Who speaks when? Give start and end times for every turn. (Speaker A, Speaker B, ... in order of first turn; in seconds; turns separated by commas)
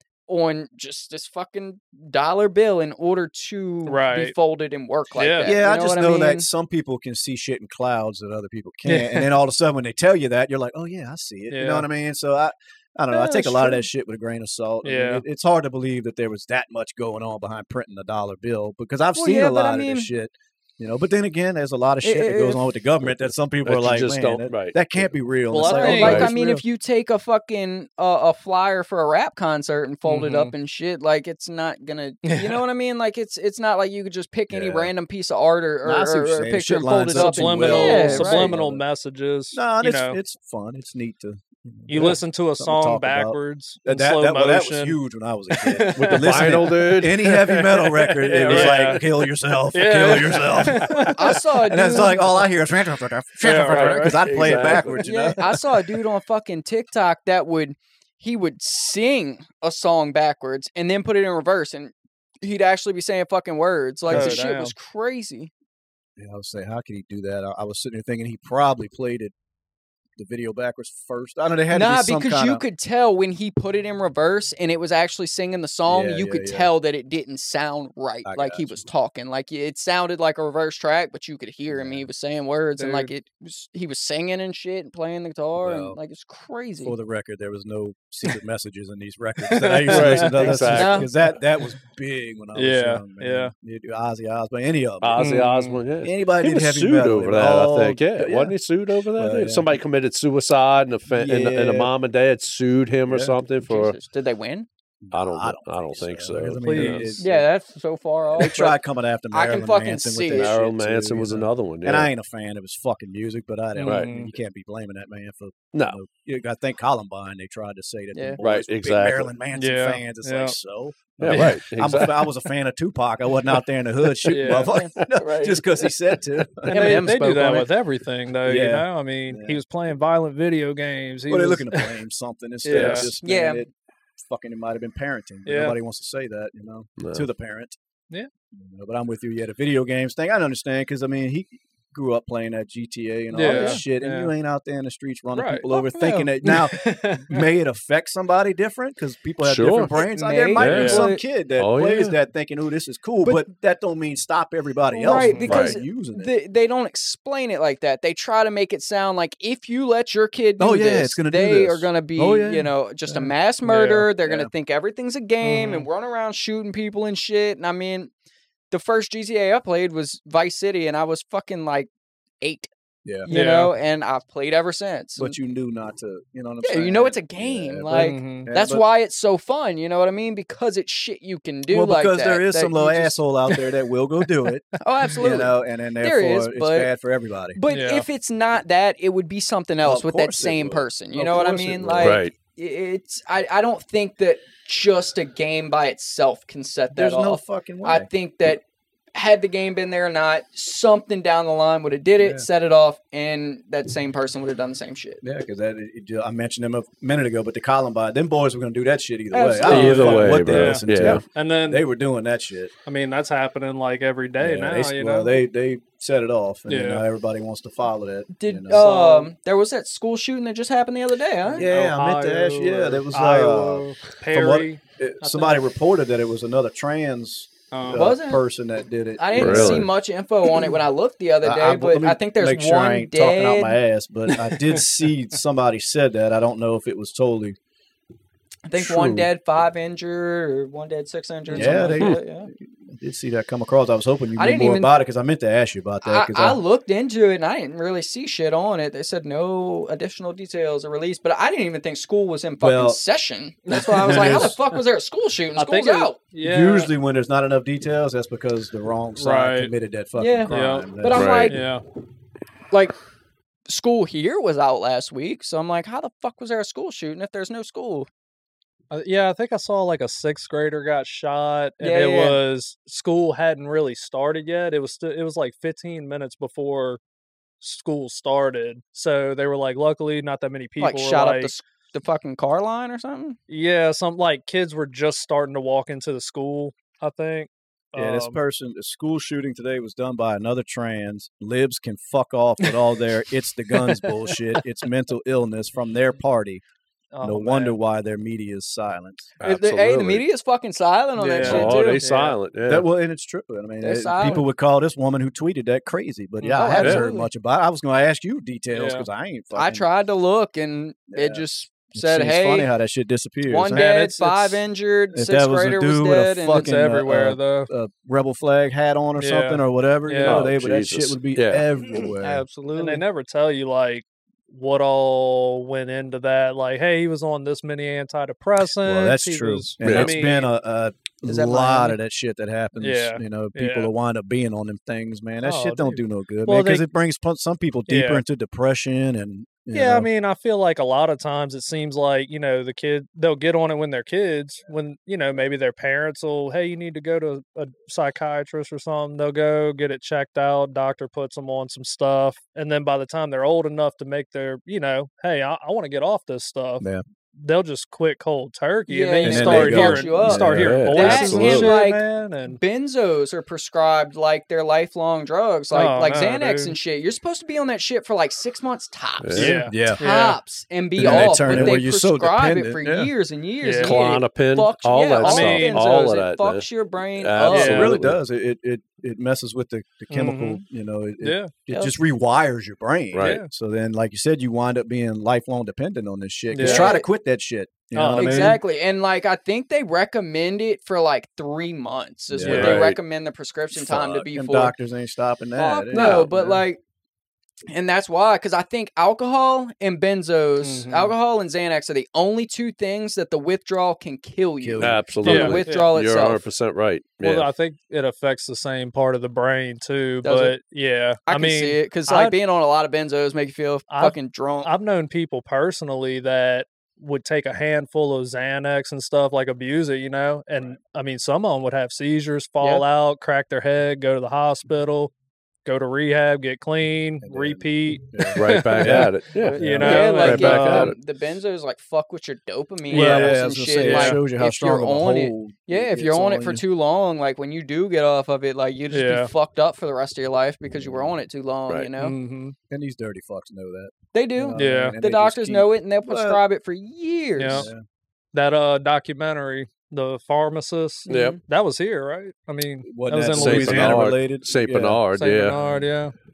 Speaker A: 0.3-6.5, Speaker B: 3.9-4.3, Speaker B: 5.2-5.5, Speaker C: 5.4-26.6, Speaker B: 8.8-9.3, Speaker B: 11.5-11.9, Speaker B: 13.1-13.8, Speaker B: 14.8-15.2, Speaker A: 19.1-20.1, Speaker A: 22.0-22.6, Speaker D: 23.1-25.1, Speaker B: 25.5-26.3, Speaker A: 25.6-38.6, Speaker D: 26.0-26.3, Speaker B: 30.1-30.5, Speaker B: 32.2-32.6, Speaker C: 34.5-34.9, Speaker C: 35.8-38.8, Speaker B: 37.1-40.2, Speaker C: 39.5-55.8, Speaker B: 41.9-47.0, Speaker D: 46.0-49.0, Speaker B: 47.7-51.5, Speaker A: 51.1-52.4, Speaker B: 53.4-54.6, Speaker D: 53.6-55.1, Speaker A: 55.0-65.5, Speaker C: 64.1-64.4, Speaker B: 64.1-64.7, Speaker C: 66.2-69.3, Speaker C: 70.2-72.6, Speaker A: 71.7-87.0, Speaker C: 75.9-76.7, Speaker C: 78.2-78.9, Speaker C: 81.7-82.1, Speaker B: 82.8-83.1, Speaker C: 85.6-86.0, Speaker C: 86.8-95.3, Speaker B: 89.5-90.8, Speaker D: 89.9-91.1, Speaker A: 90.7-91.1, Speaker B: 92.5-93.5, Speaker D: 95.0-104.0, Speaker B: 95.2-95.8, Speaker C: 96.0-99.8, Speaker C: 101.1-101.9, Speaker C: 103.1-103.3, Speaker A: 103.7-104.7, Speaker C: 105.0-107.5, Speaker D: 105.1-107.1, Speaker B: 106.6-107.2, Speaker A: 107.2-108.8, Speaker C: 108.3-127.1, Speaker A: 109.3-110.6, Speaker D: 110.3-112.1, Speaker B: 113.8-114.3, Speaker D: 113.8-114.1, Speaker D: 115.7-116.0, Speaker A: 118.1-118.4, Speaker D: 118.4-119.3, Speaker B: 119.5-120.6, Speaker D: 121.2-122.3, Speaker B: 121.3-121.6, Speaker D: 124.1-124.5, Speaker B: 124.3-124.7, Speaker A: 124.6-125.6, Speaker B: 126.7-132.0, Speaker A: 126.7-127.7, Speaker C: 128.4-129.6, Speaker C: 131.3-133.7, Speaker B: 132.6-133.1, Speaker D: 132.7-133.0, Speaker A: 132.9-133.7, Speaker C: 134.2-137.8, Speaker B: 135.5-135.8, Speaker D: 137.0-137.3, Speaker C: 138.6-156.3, Speaker B: 143.3-144.3, Speaker A: 143.4-143.8, Speaker B: 145.3-147.5, Speaker D: 149.4-149.9, Speaker A: 149.9-151.2, Speaker D: 150.6-151.1, Speaker B: 150.7-151.0, Speaker D: 151.6-152.2, Speaker A: 154.9-168.1, Speaker B: 155.1-155.6, Speaker D: 155.5-155.8, Speaker C: 160.6-163.3, Speaker B: 163.7-164.1, Speaker C: 164.2-164.5, Speaker B: 165.4-165.9, Speaker A: 168.7-171.9, Speaker A: 172.4-172.7, Speaker C: 173.1-173.3, Speaker A: 173.2-175.4, Speaker B: 173.3-173.8, Speaker C: 175.2-178.8, Speaker A: 176.6-183.2, Speaker B: 177.9-178.5, Speaker C: 181.7-187.6, Speaker A: 184.8-186.9, Speaker A: 187.6-198.6, Speaker B: 187.7-188.1, Speaker C: 189.8-192.2, Speaker D: 192.0-192.3, Speaker C: 196.9-198.1, Speaker A: 199.1-205.2, Speaker C: 202.2-202.5, Speaker C: 205.2-212.7, Speaker A: 209.3-210.4, Speaker D: 209.7-211.2, Speaker B: 209.7-211.9, Speaker B: 212.9-215.4, Speaker C: 214.4-218.9, Speaker B: 216.7-217.0, Speaker A: 218.3-221.7, Speaker B: 218.7-219.3, Speaker B: 221.5-225.7, Speaker C: 221.6-229.9, Speaker B: 227.7-228.1, Speaker A: 227.9-228.4, Speaker A: 229.2-233.8, Speaker D: 229.4-229.9, Speaker C: 231.4-237.6, Speaker A: 238.7-242.5, Speaker C: 238.8-239.3, Speaker B: 241.5-242.0, Speaker C: 241.5-246.6, Speaker A: 244.4-244.9, Speaker A: 246.0-256.2, Speaker C: 252.6-253.0, Speaker B: 253.7-254.8, Speaker C: 253.9-254.6, Speaker B: 255.6-256.9, Speaker C: 256.4-261.3, Speaker B: 259.2-259.7, Speaker A: 260.2-261.6, Speaker B: 260.5-260.9, Speaker D: 261.1-261.6, Speaker B: 261.4-261.8, Speaker A: 263.7-268.1, Speaker B: 268.9-277.0, Speaker A: 271.8-272.4, Speaker B: 277.6-281.5, Speaker A: 280.8-283.4, Speaker B: 283.5-288.4, Speaker C: 287.9-296.6, Speaker B: 293.7-294.6, Speaker B: 297.1-297.8, Speaker C: 297.2-299.4, Speaker D: 299.4-300.2, Speaker A: 299.4-302.1, Speaker B: 301.2-302.4, Speaker D: 301.4-302.9, Speaker C: 301.4-301.7, Speaker C: 302.7-309.9, Speaker A: 303.8-304.5, Speaker B: 306.4-306.9, Speaker A: 306.5-307.3, Speaker D: 306.8-307.1, Speaker B: 308.7-309.1, Speaker A: 309.6-312.7, Speaker C: 311.1-313.9, Speaker A: 313.5-316.7, Speaker B: 313.7-314.6, Speaker C: 315.1-322.4, Speaker B: 316.5-317.7, Speaker B: 319.2-320.5, Speaker D: 320.2-321.7, Speaker A: 322.2-323.0, Speaker B: 322.7-330.5, Speaker C: 328.8-340.1, Speaker D: 329.8-330.2, Speaker A: 331.2-332.0, Speaker B: 332.8-333.9, Speaker B: 335.4-336.9, Speaker B: 337.9-338.2, Speaker B: 339.7-362.6, Speaker A: 358.9-377.9, Speaker C: 359.2-360.8, Speaker D: 360.4-361.8, Speaker B: 365.7-366.8, Speaker D: 369.2-369.6, Speaker B: 369.4-370.4, Speaker C: 369.4-370.0, Speaker C: 371.0-373.1, Speaker D: 371.1-371.8, Speaker B: 373.6-374.0, Speaker D: 373.8-378.2, Speaker B: 375.2-375.9, Speaker C: 377.4-388.6, Speaker B: 380.1-380.6, Speaker B: 381.2-381.5, Speaker D: 383.1-383.4, Speaker B: 383.2-383.5, Speaker B: 386.5-387.0, Speaker A: 386.6-387.1, Speaker B: 387.9-388.6, Speaker A: 388.2-394.8, Speaker C: 392.3-392.8, Speaker B: 392.4-392.9, Speaker D: 392.5-393.0, Speaker C: 393.8-396.6, Speaker A: 395.6-396.8, Speaker D: 395.9-396.3, Speaker A: 397.7-406.4, Speaker B: 400.6-401.1, Speaker C: 404.6-405.1, Speaker D: 404.8-407.5, Speaker B: 405.2-405.9, Speaker B: 407.2-412.4, Speaker A: 410.2-410.6, Speaker A: 411.3-414.7, Speaker B: 413.9-425.1, Speaker B: 425.6-430.9, Speaker C: 427.2-430.2, Speaker D: 428.4-431.0, Speaker A: 429.4-442.2, Speaker B: 432.9-434.2, Speaker C: 432.9-436.6, Speaker B: 438.9-439.3, Speaker C: 440.8-441.1, Speaker B: 442.0-442.6, Speaker C: 442.7-446.4, Speaker A: 444.1-447.7, Speaker B: 444.6-445.0, Speaker B: 447.4-447.7, Speaker C: 447.4-447.8, Speaker B: 448.3-454.1, Speaker A: 451.1-451.4, Speaker D: 451.1-451.4, Speaker C: 452.9-455.9, Speaker D: 453.3-455.6, Speaker B: 455.2-456.1